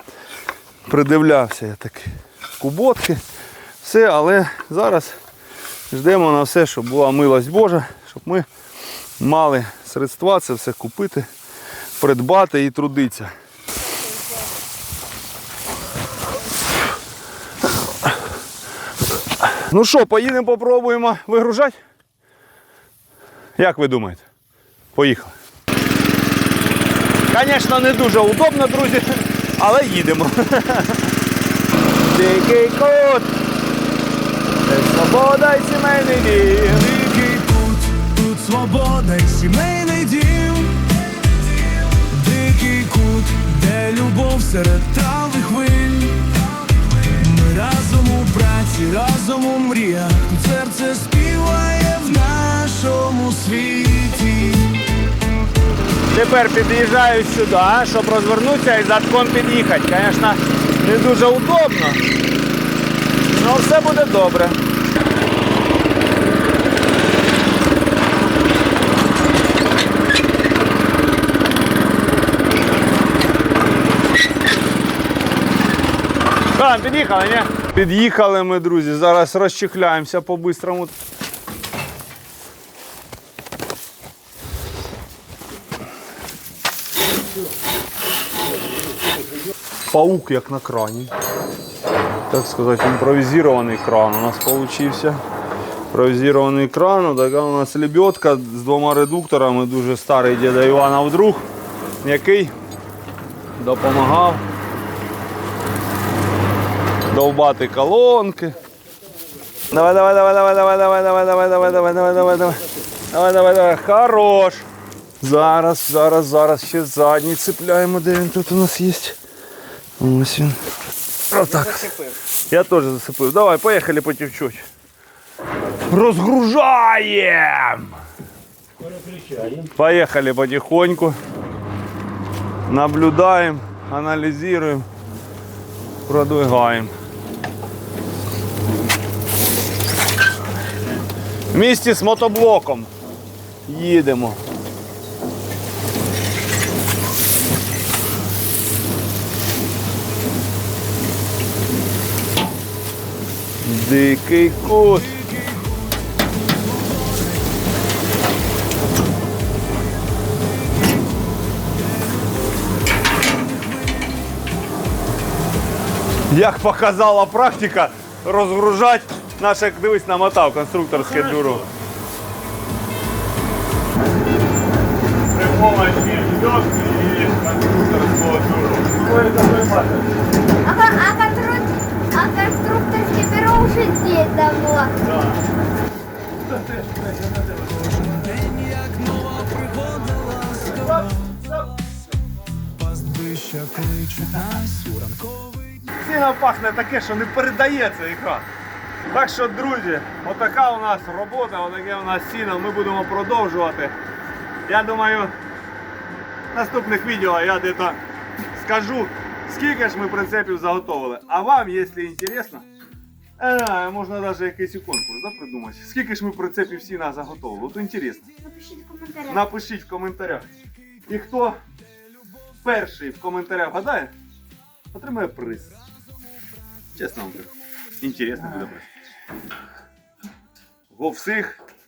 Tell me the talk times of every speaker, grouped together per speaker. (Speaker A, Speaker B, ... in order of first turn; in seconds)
Speaker A: 0.9-3.2, 3.8-5.2, 5.9-8.5, 9.2-11.3, 12.0-13.3, 19.4-21.8, 23.6-24.2, 24.9-25.3, 27.3-31.1, 32.0-33.3, 34.7-37.0, 56.1-62.0, 63.2-64.6, 76.5-80.9, 89.9-91.1, 92.3-95.2, 95.9-101.5, 102.0-102.5, 103.6-104.4, 107.1-108.6, 109.7-114.7, 115.2-119.2, 120.0-120.6, 121.3-124.7, 125.9-128.0, 129.6-131.2, 132.7-134.9, 136.1-136.9, 141.5-142.9, 143.7-144.4, 153.6-155.2, 166.3-171.7, 175.3-180.2, 184.9-185.4, 186.5-187.8, 190.7-191.6, 195.9-198.5, 199.1-203.9, 204.7-205.3, 206.5-208.0, 208.5-212.7, 213.4-218.3, 219.3-220.5, 221.1-221.6, 222.6-224.1, 224.9-225.8, 226.9-228.9, 230.9-231.6
Speaker B: 36.8-54.8, 187.8-191.4, 192.7-195.8
Speaker C: 180.6-184.9, 218.4-219.3